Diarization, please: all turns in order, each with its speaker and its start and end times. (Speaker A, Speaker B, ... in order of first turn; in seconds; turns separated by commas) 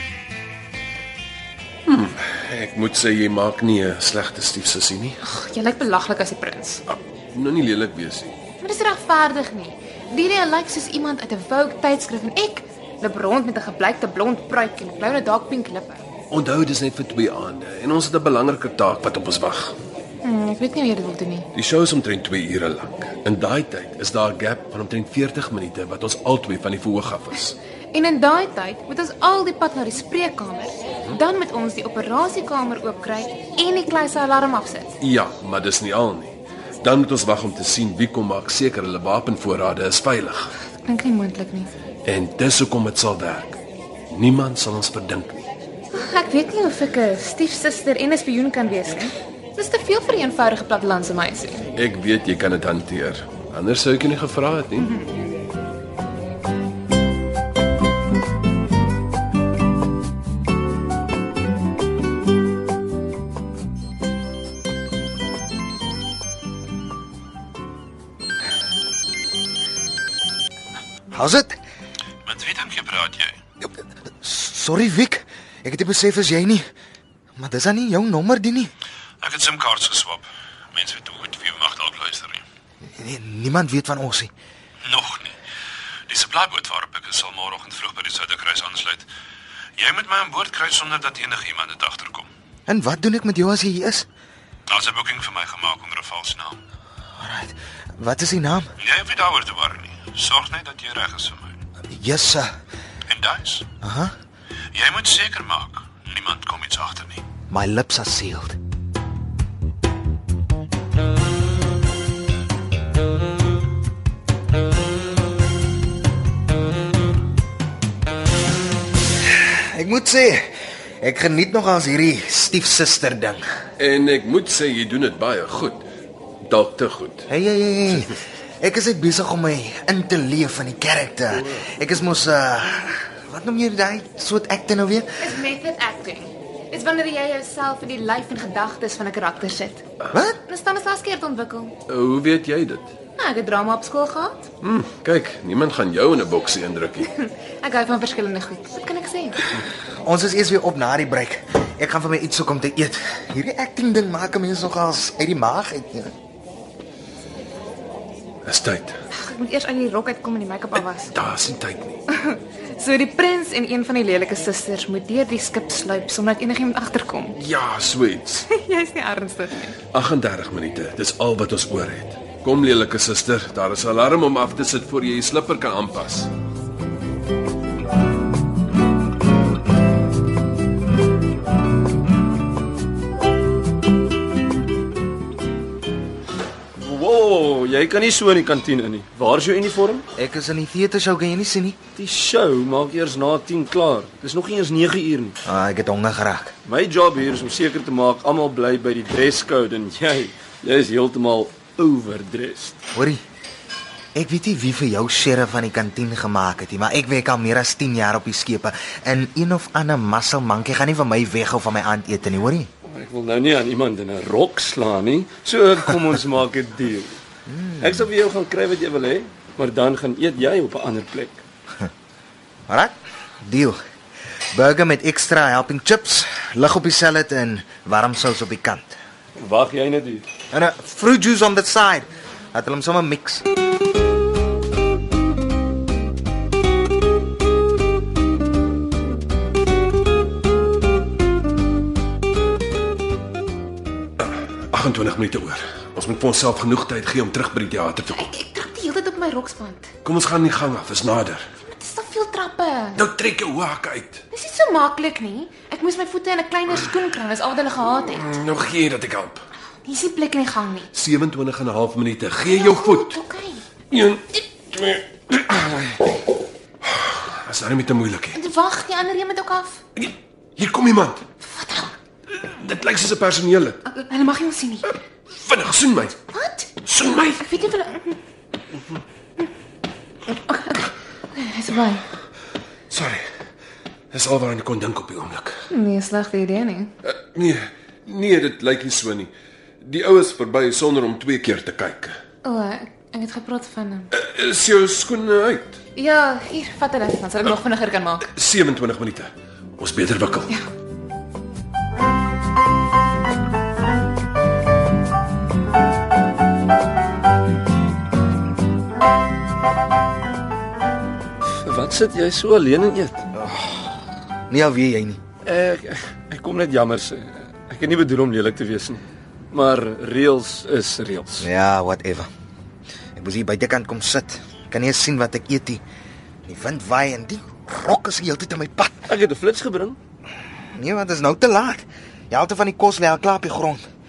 Speaker A: 1.9-5.2, Speaker B: 5.2-6.8, Speaker A: 6.9-8.4, Speaker B: 8.6-16.1, Speaker A: 16.3-19.8, Speaker B: 20.2-21.5, Speaker A: 21.5-27.6, Speaker B: 27.9-35.0, Speaker A: 35.0-40.5, Speaker B: 40.8-41.7, Speaker A: 42.0-43.6, Speaker A: 44.1-45.4, Speaker B: 45.9-51.6, Speaker A: 51.8-55.0, Speaker C: 71.1-71.6, Speaker D: 72.3-73.4, Speaker C: 74.2-76.6, Speaker C: 77.4-78.7, Speaker D: 79.2-82.4, Speaker C: 83.0-84.3, Speaker D: 84.9-85.3, Speaker D: 86.1-89.1, Speaker D: 89.8-92.3, Speaker C: 92.7-94.1, Speaker D: 94.7-96.6, Speaker C: 97.2-98.7, Speaker D: 98.8-101.6, Speaker C: 101.9-102.5, Speaker D: 103.1-103.7, Speaker C: 103.8-104.1, Speaker D: 104.7-107.2, Speaker C: 107.5-108.6, Speaker C: 119.3-120.5, Speaker C: 121.0-123.4, Speaker A: 123.8-125.8, Speaker A: 126.5-127.3, Speaker C: 127.3-135.3, Speaker B: 135.2-139.8, Speaker C: 140.1-140.4, Speaker B: 140.5-141.8, Speaker A: 141.9-142.9, Speaker B: 143.2-144.5, Speaker A: 144.6-147.1, Speaker B: 147.1-149.4, Speaker C: 149.9-156.1, Speaker A: 158.4-159.0, Speaker B: 159.1-161.1, Speaker A: 161.1-162.0, Speaker B: 162.1-167.4, Speaker A: 167.4-168.5, Speaker B: 168.5-169.8, Speaker A: 169.9-176.3, Speaker E: 186.8-190.1, Speaker C: 190.2-191.8, Speaker E: 191.9-195.3, Speaker C: 195.4-196.5, Speaker E: 196.7-202.8, Speaker C: 202.9-203.2, Speaker C: 204.2-212.7, Speaker E: 212.9-217.2, Speaker C: 217.5-218.0, Speaker E: 217.8-221.4, Speaker C: 222.7-223.8, Speaker C: 224.5-229.0, Speaker E: 229.4-230.3, Speaker C: 230.5-233.4, Speaker A: 244.2-248.3, Speaker B: 248.1-249.9, Speaker A: 250.0-251.4, Speaker B: 251.6-253.0, Speaker A: 253.0-254.2, Speaker B: 254.3-258.2, Speaker A: 258.0-259.4, Speaker B: 259.8-260.9, Speaker A: 260.9-263.2, Speaker B: 262.5-263.6, Speaker A: 263.9-266.0, Speaker A: 266.8-268.4, Speaker B: 268.3-269.8, Speaker A: 270.0-271.2, Speaker B: 271.4-271.9, Speaker A: 272.4-273.9, Speaker B: 273.9-274.9, Speaker A: 275.4-276.2, Speaker B: 276.3-276.7, Speaker A: 276.8-277.5, Speaker B: 277.4-278.2, Speaker B: 280.3-282.0, Speaker A: 282.9-283.2, Speaker A: 284.1-285.6, Speaker B: 285.7-286.9, Speaker A: 287.0-292.2, Speaker B: 292.4-294.1, Speaker A: 294.1-295.8, Speaker B: 296.0-298.3, Speaker A: 298.3-300.5, Speaker E: 311.4-313.3, Speaker C: 313.3-315.2, Speaker E: 315.4-321.5, Speaker C: 321.4-322.3, Speaker C: 323.2-325.8, Speaker C: 326.5-329.1, Speaker E: 329.1-330.0, Speaker C: 330.8-333.8